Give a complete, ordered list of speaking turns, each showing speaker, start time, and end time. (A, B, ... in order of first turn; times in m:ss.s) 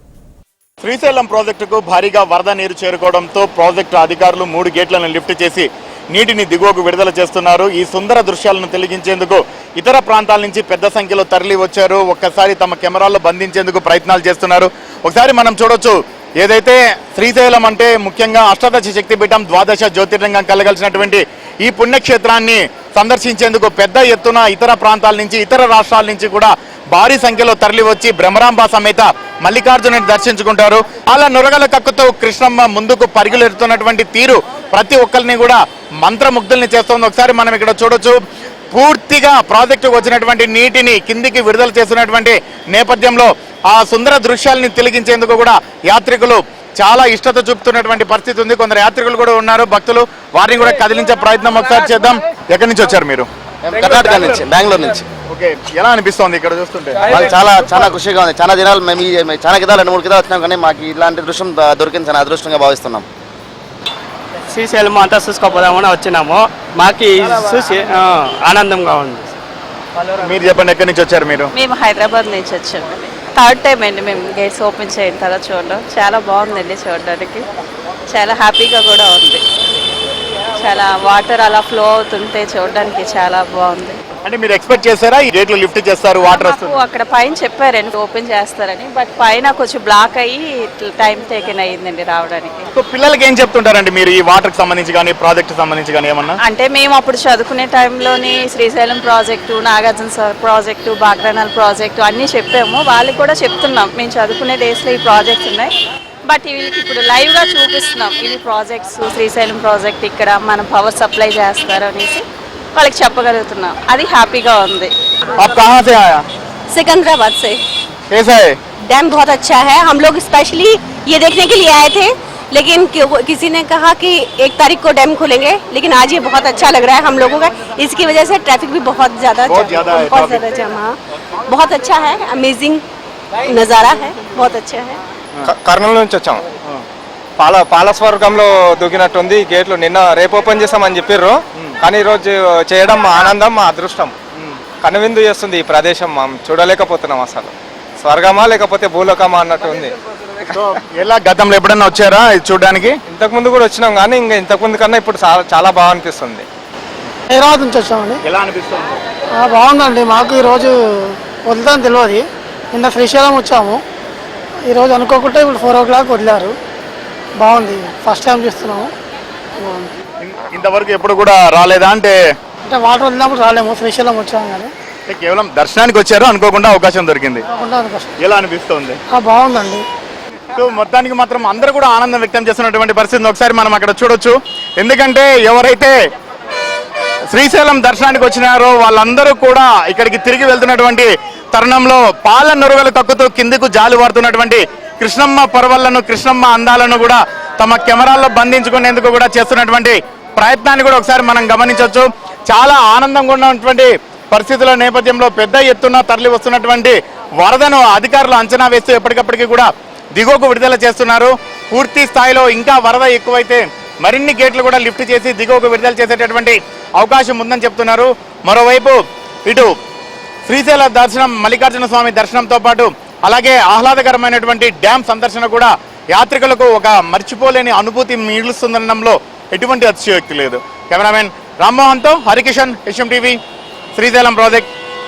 0:00.8-0:38.2 A
0:38.7-0:53.3 A
0:53.6-0:55.1 B
0:55.3-0:57.2 A
0:57.1-1:03.0 B
1:04.5-1:09.3 C
1:10.2-1:11.5 A
1:11.5-1:17.4 D
1:18.1-1:19.4 D
1:20.6-1:24.0 D
1:24.2-1:26.8 A
1:26.3-1:32.6 D
1:32.7-1:36.4 A
1:36.4-1:45.7 D
1:46.3-1:52.2 D
1:52.7-1:54.9 D
1:55.4-1:56.2 A
1:56.7-1:57.6 E
1:58.1-1:58.6 A
1:58.9-2:12.8 E
2:09.4-2:10.4 A
2:13.4-2:15.0 E
2:15.5-2:16.4 F
2:17.4-2:24.1 F
2:24.8-2:29.9 F
2:30.5-2:32.9 A
2:33.1-2:36.4 F
2:37.3-2:38.2 G
2:38.2-2:39.0 A
2:39.4-2:40.7 G
2:41.5-2:43.8 G
2:44.7-2:46.5 G
2:47.4-2:48.9 G
2:49.6-2:49.9 G
2:50.2-2:52.1 A
2:52.7-2:54.7 G
2:55.1-2:57.4 A
2:57.5-2:58.1 G
2:58.2-2:59.0 A
2:59.1-2:59.8 G
3:00.5-3:05.9 A
3:07.3-3:39.7 A
3:40.5-3:53.4 A
3:54.0-3:54.7 A